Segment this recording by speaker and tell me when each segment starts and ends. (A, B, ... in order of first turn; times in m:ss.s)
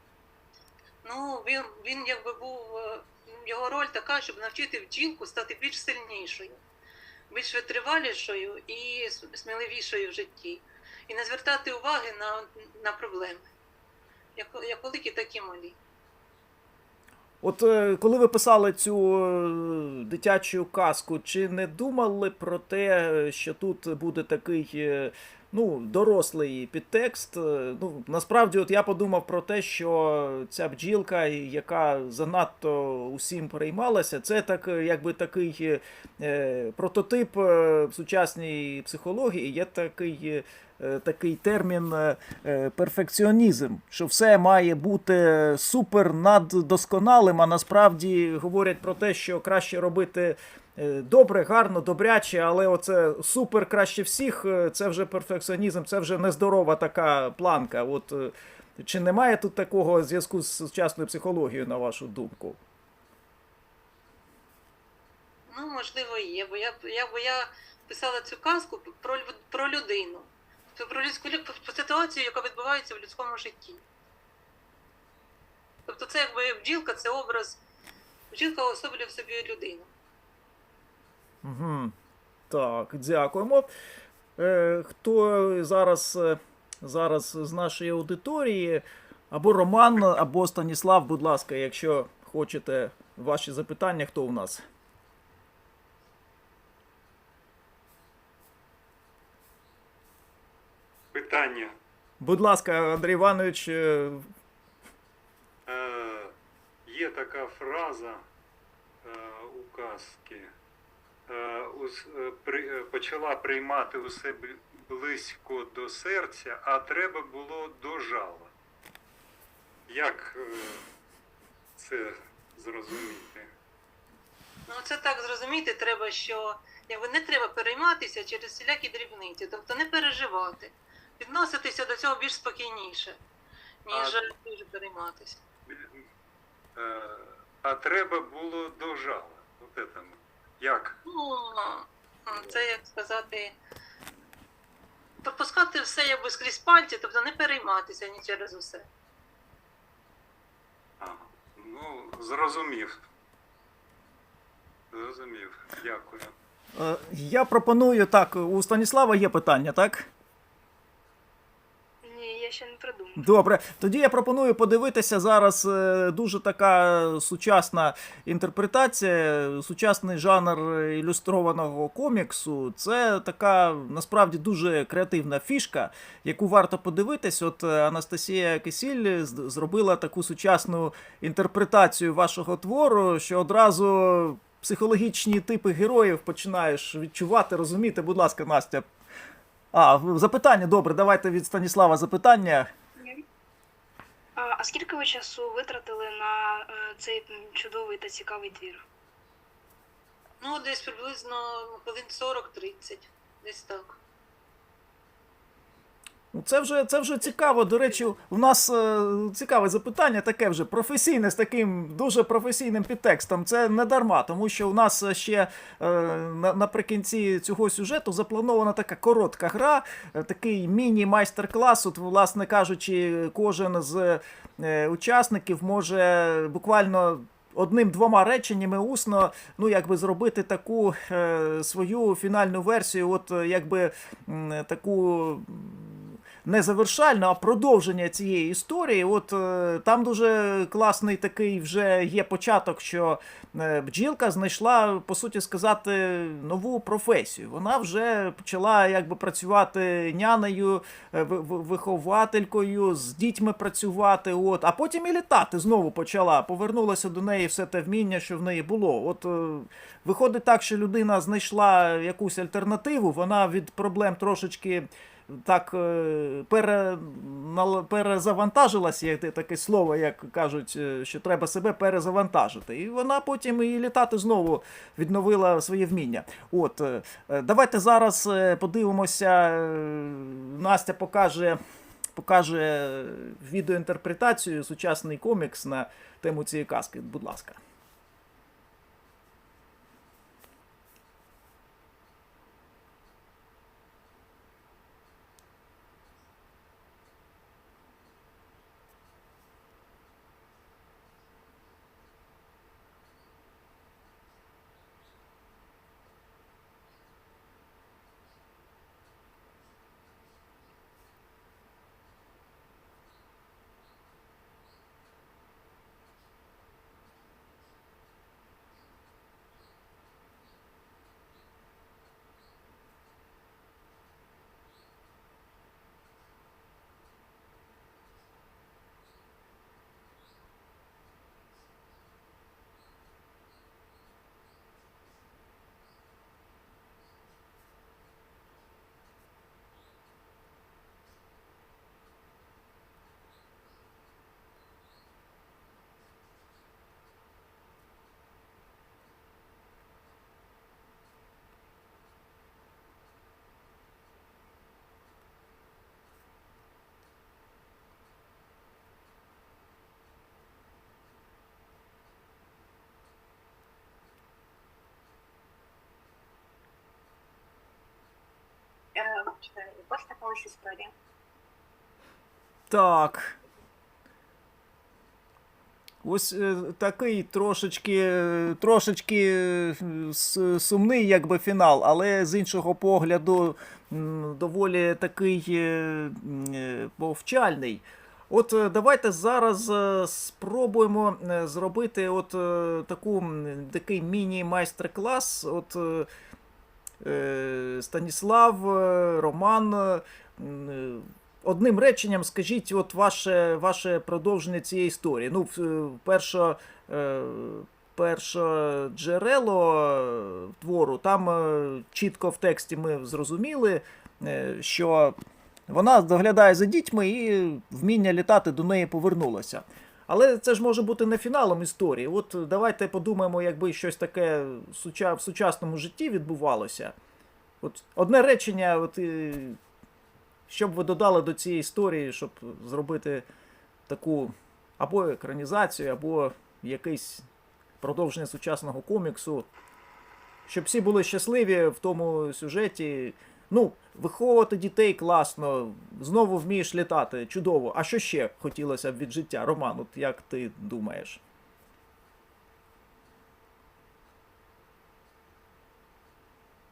0:01.0-0:06.6 A
0:07.3-0:13.5 A
0:14.4-0:15.8 A
0:17.4-1:02.6 B
1:05.5-1:13.8 A
1:15.9-1:17.6 A
1:18.3-1:19.9 A
1:21.4-1:21.9 B
1:22.5-1:23.7 B
1:24.4-1:34.6 B
1:41.1-1:41.8 C
1:42.2-1:44.3 B
1:45.7-1:48.2 C
1:49.0-1:50.5 C
1:51.3-1:58.5 C
1:59.9-2:00.8 C
2:01.8-2:03.5 C
2:04.7-2:13.2 A
2:13.9-2:15.4 A
2:13.9-2:14.2 C
2:15.7-2:16.0 C
2:16.8-2:21.0 C
2:21.0-2:23.6 A
2:22.3-2:22.6 C
2:25.2-2:28.9 A
2:31.0-2:33.0 C
2:34.9-2:36.3 C
2:36.8-2:40.1 B
2:42.0-2:43.3 D
2:43.2-3:08.9 B
3:09.7-3:12.7 B
3:13.0-3:13.2 E
3:14.4-3:18.8 D
3:20.4-3:24.0 A
3:26.3-4:41.6 B
4:42.2-4:47.6 B
6:09.0-6:10.9 E
6:12.7-6:13.3 B
6:16.0-6:36.1 B
6:37.0-6:55.2 B
6:55.7-7:06.9 B
7:07.6-7:09.6 B
7:10.5-7:13.3 B
7:13.9-7:17.3 B
7:17.8-7:19.5 B
7:20.5-7:31.2 B